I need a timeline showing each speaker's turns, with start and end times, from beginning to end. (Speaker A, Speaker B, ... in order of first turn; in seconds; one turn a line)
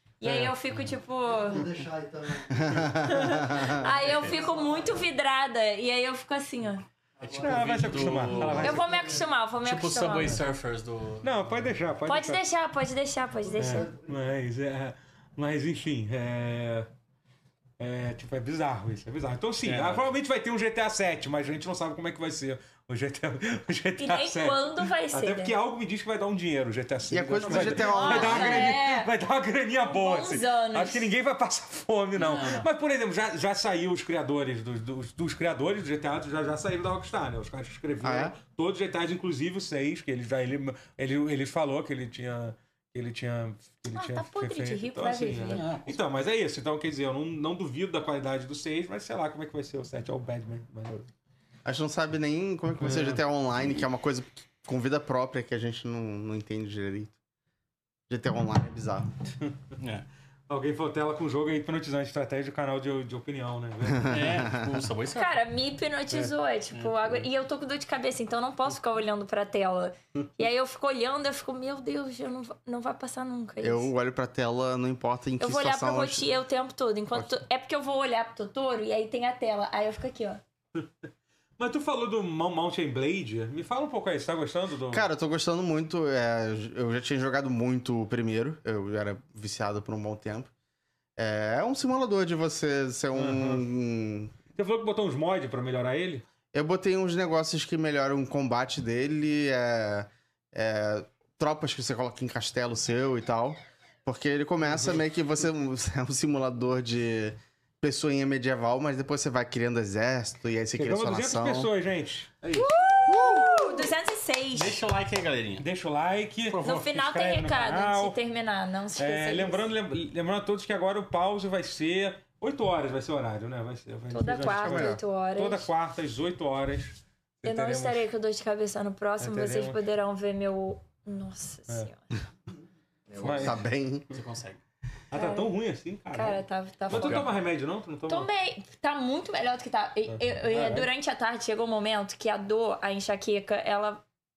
Speaker A: 0.2-1.6
Speaker B: 0.2-0.5
Speaker C: 1.3-5.1
Speaker D: 2.5-3.9
Speaker A: 3.0-6.8
Speaker E: 4.0-4.3
Speaker C: 7.2-9.3
Speaker E: 7.2-8.8
Speaker B: 7.4-9.0
Speaker A: 8.6-10.4
Speaker E: 9.6-11.7
Speaker B: 11.2-12.4
Speaker A: 12.1-13.9
Speaker C: 13.4-14.3
Speaker B: 13.6-16.9
Speaker B: 17.8-51.1
Speaker E: 19.6-20.1
Speaker A: 24.0-25.6
Speaker D: 27.1-28.7
Speaker E: 27.5-27.8
Speaker A: 27.5-29.1
Speaker A: 29.8-31.1
Speaker E: 32.1-32.7
Speaker D: 38.0-38.3
Speaker A: 43.9-45.6
Speaker E: 45.5-46.0
Speaker D: 51.6-57.1
Speaker E: 52.8-53.2
Speaker D: 58.1-59.1
Speaker E: 59.8-60.0
Speaker B: 60.5-64.2
Speaker D: 63.9-64.8
Speaker E: 64.1-65.4
Speaker A: 65.1-73.9
Speaker E: 66.7-67.1
Speaker D: 73.6-76.3
Speaker A: 75.4-80.4
Speaker B: 81.6-85.1
Speaker D: 84.9-90.5
Speaker D: 91.2-94.3
Speaker B: 93.1-93.6
Speaker B: 94.5-96.3
Speaker D: 96.5-111.7
Speaker B: 104.6-105.0
Speaker B: 110.7-113.3
Speaker A: 112.5-114.8
Speaker E: 114.5-115.7
Speaker B: 115.6-118.2
Speaker E: 116.5-116.8
Speaker A: 116.6-119.6
Speaker B: 119.0-128.0
Speaker A: 124.1-125.7
Speaker D: 124.5-125.0
Speaker A: 127.4-132.0
Speaker B: 129.2-129.8
Speaker A: 133.1-133.5
Speaker B: 133.2-133.6
Speaker D: 133.2-134.1
Speaker E: 134.1-134.6
Speaker B: 135.1-138.3
Speaker A: 135.1-135.5
Speaker A: 136.1-137.3
Speaker E: 136.9-137.3
Speaker A: 138.1-144.0
Speaker B: 140.1-140.9